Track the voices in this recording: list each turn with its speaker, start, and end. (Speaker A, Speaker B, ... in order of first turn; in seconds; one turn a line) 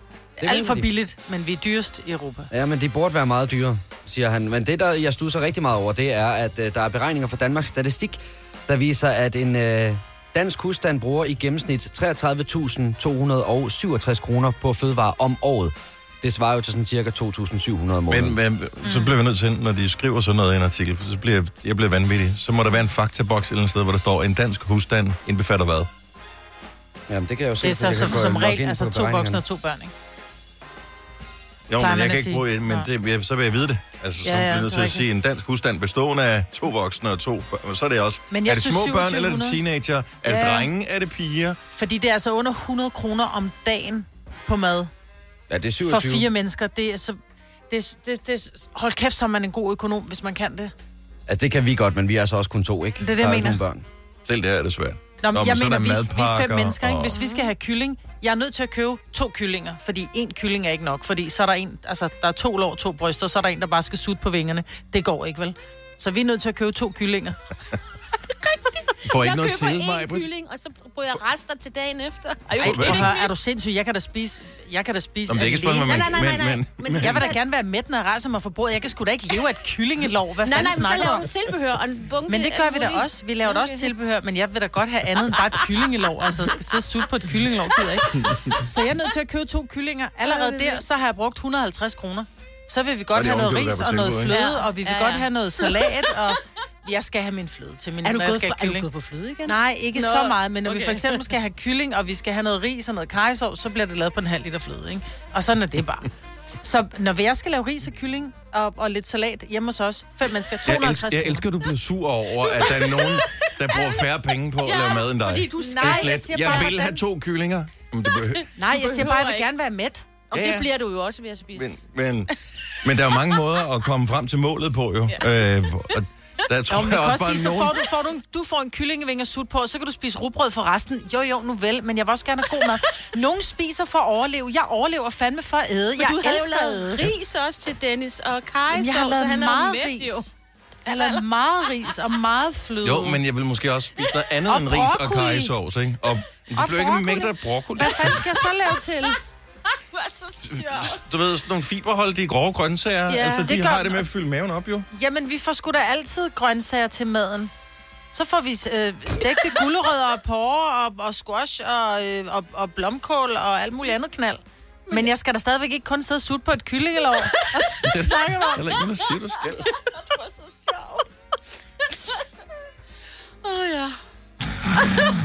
Speaker A: 0.4-0.9
Speaker B: 0.4-2.5
Speaker A: 2.5-18.4
Speaker C: 18.1-25.9
Speaker B: 18.8-19.1
Speaker A: 27.1-29.4
Speaker B: 27.6-29.9
Speaker C: 31.7-41.6
Speaker B: 31.8-32.9
Speaker B: 34.2-35.0
Speaker B: 38.3-39.6
Speaker B: 40.2-40.7
Speaker B: 41.7-44.9
Speaker A: 45.5-46.3
Speaker B: 45.9-47.2
Speaker B: 47.7-50.7
Speaker A: 51.3-53.8
Speaker B: 53.0-53.6
Speaker C: 54.2-57.2
Speaker B: 55.2-67.4
Speaker D: 57.1-57.5
Speaker D: 69.0-73.3
Speaker C: 69.0-70.3
Speaker C: 72.6-73.1
Speaker B: 72.6-76.1
Speaker C: 75.3-77.3
Speaker D: 75.8-77.4
Speaker B: 77.0-81.3
Speaker D: 80.4-83.9
Speaker B: 82.3-98.9
Speaker D: 85.3-85.8
Speaker C: 88.2-88.5
Speaker D: 90.2-90.8
Speaker C: 93.1-94.4
Speaker D: 94.3-96.1
Speaker D: 98.0-101.3
Speaker B: 99.5-106.1
Speaker B: 106.6-111.5
Speaker C: 110.7-118.5
Speaker D: 112.5-116.8
Speaker B: 115.5-117.0
Speaker D: 118.1-119.5
Speaker B: 118.6-120.5
Speaker D: 120.3-121.8
Speaker C: 120.3-120.7
Speaker C: 121.5-122.3
Speaker C: 122.8-127.8
Speaker B: 126.7-137.1
Speaker D: 136.0-140.3
Speaker B: 138.7-140.3
Speaker D: 140.9-141.2
Speaker B: 140.9-143.2
Speaker C: 142.8-148.2
Speaker B: 144.5-145.5
Speaker B: 146.6-149.2
Speaker D: 149.9-151.0
Speaker C: 150.4-154.9
Speaker B: 153.1-154.1
Speaker B: 154.9-157.5
Speaker B: 158.1-168.6
Speaker D: 167.3-167.6
Speaker C: 167.8-169.7
Speaker D: 169.7-171.1
Speaker D: 173.4-174.0